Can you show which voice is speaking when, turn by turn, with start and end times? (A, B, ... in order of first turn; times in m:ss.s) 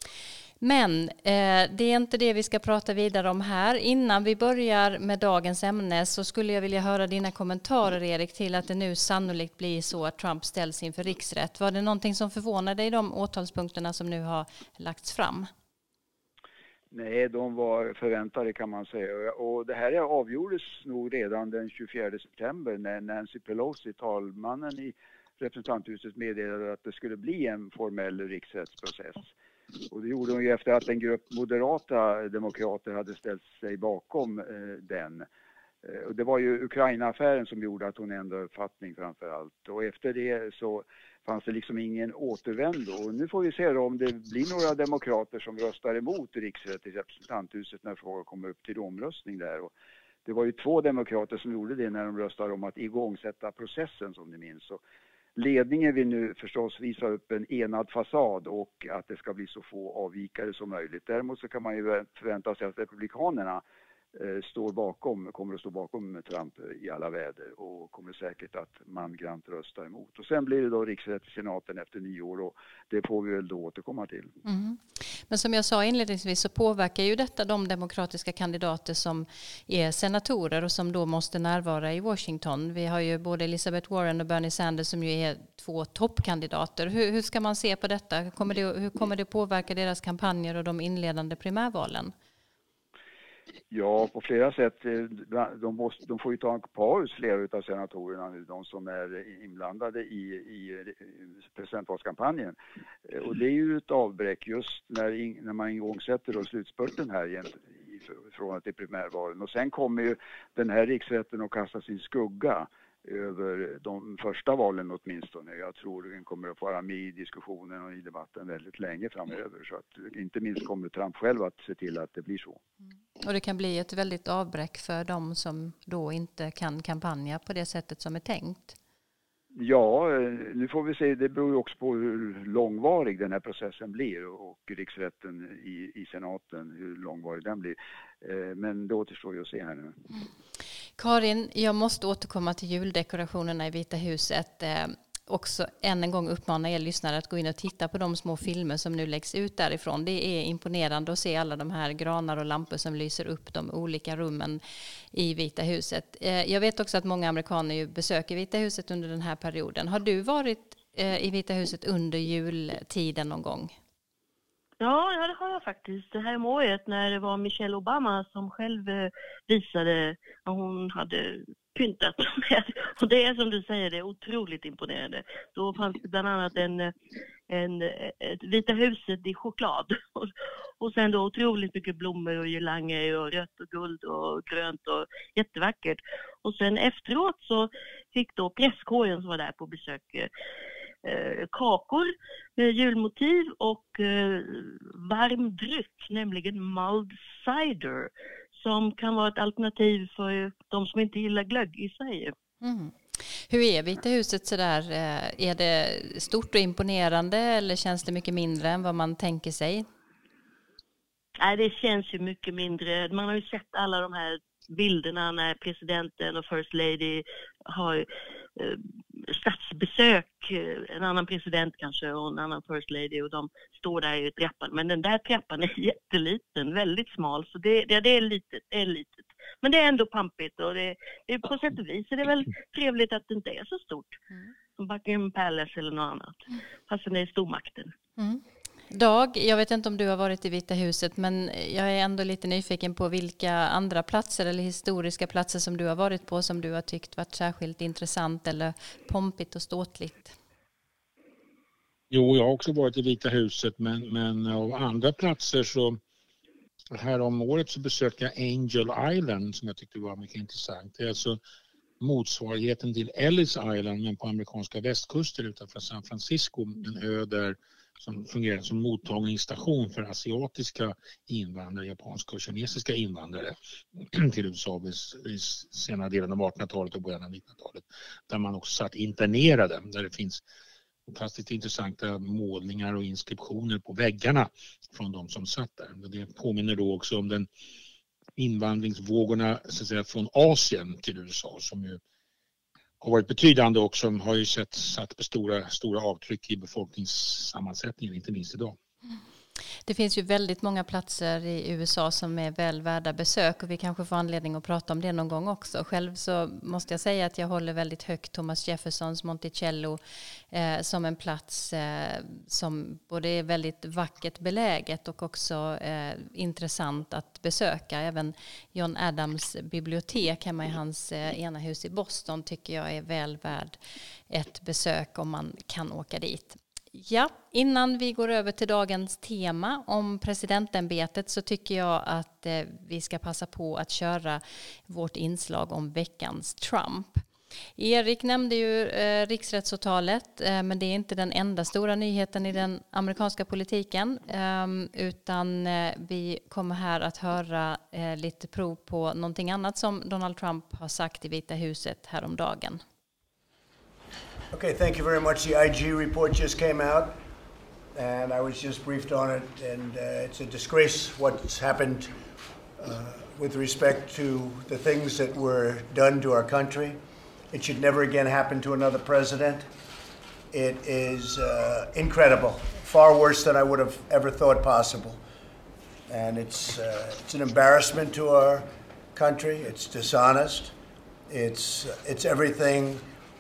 0:00.6-0:15.5 A
0:16.9-0:29.3 B
0:29.9-0:35.3 B
0:35.8-0:49.7 B
0:50.2-0:54.8 B
0:55.4-1:03.6 B
1:04.2-1:14.3 B
1:14.4-1:32.1 A
1:33.7-1:42.6 B
1:43.1-2:02.6 B
2:03.2-2:08.8 A
2:09.6-2:20.0 B
2:21.0-2:34.6 A
2:35.1-2:43.8 A
2:44.8-2:56.9 C
2:57.5-3:10.3 C
3:11.0-3:22.3 C
3:22.6-3:22.9 A
3:23.5-3:29.9 A
3:31.4-3:54.2 C
3:54.8-3:57.9 C
3:58.2-4:10.4 A
4:12.1-4:16.0 D
4:16.9-4:21.4 D
4:22.0-4:40.4 D
4:41.1-4:47.5 D
4:48.4-4:52.0 D
4:53.0-4:58.8 D
4:59.9-5:10.0 A
5:10.5-5:23.8 A
5:24.3-5:37.2 A
5:37.8-5:52.8 A
5:54.5-5:57.2 E
5:57.9-6:02.2 E
6:02.8-6:09.7 E
6:10.5-6:15.2 E
6:16.1-6:20.7 E
6:21.3-6:23.1 E